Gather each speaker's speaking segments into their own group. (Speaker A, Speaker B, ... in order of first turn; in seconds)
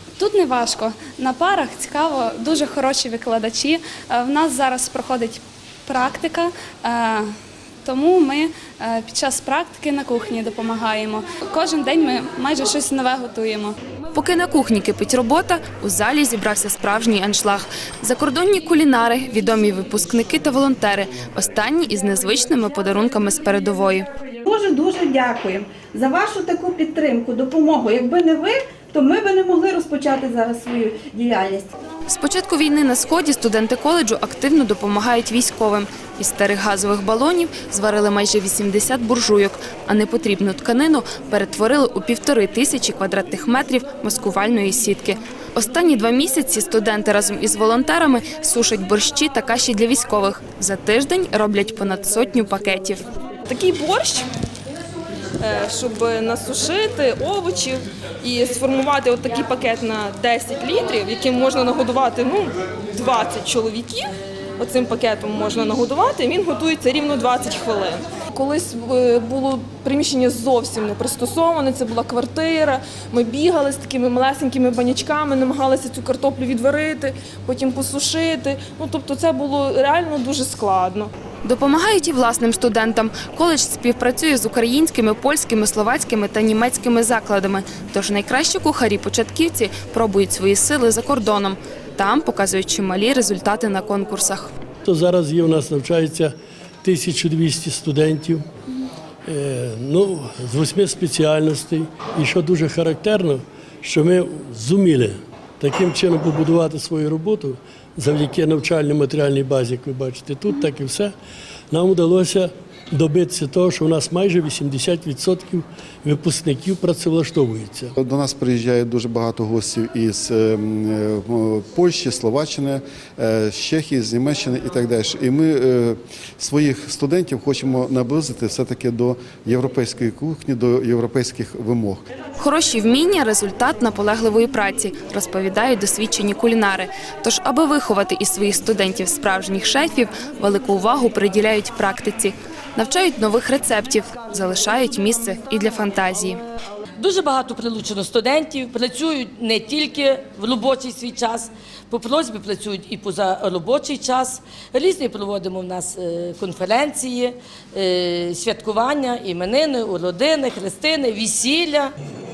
Speaker A: 0.2-7.3, 7.8-13.7
Speaker B: 14.1-24.1, 32.1-53.0, 81.4-94.5, 132.4-146.4
Speaker C: 24.4-31.7
Speaker D: 53.5-54.3, 55.4-81.1
Speaker E: 94.8-98.4, 99.2-111.1, 111.7-117.9
Speaker F: 118.0-132.0
Speaker G: 147.0-161.9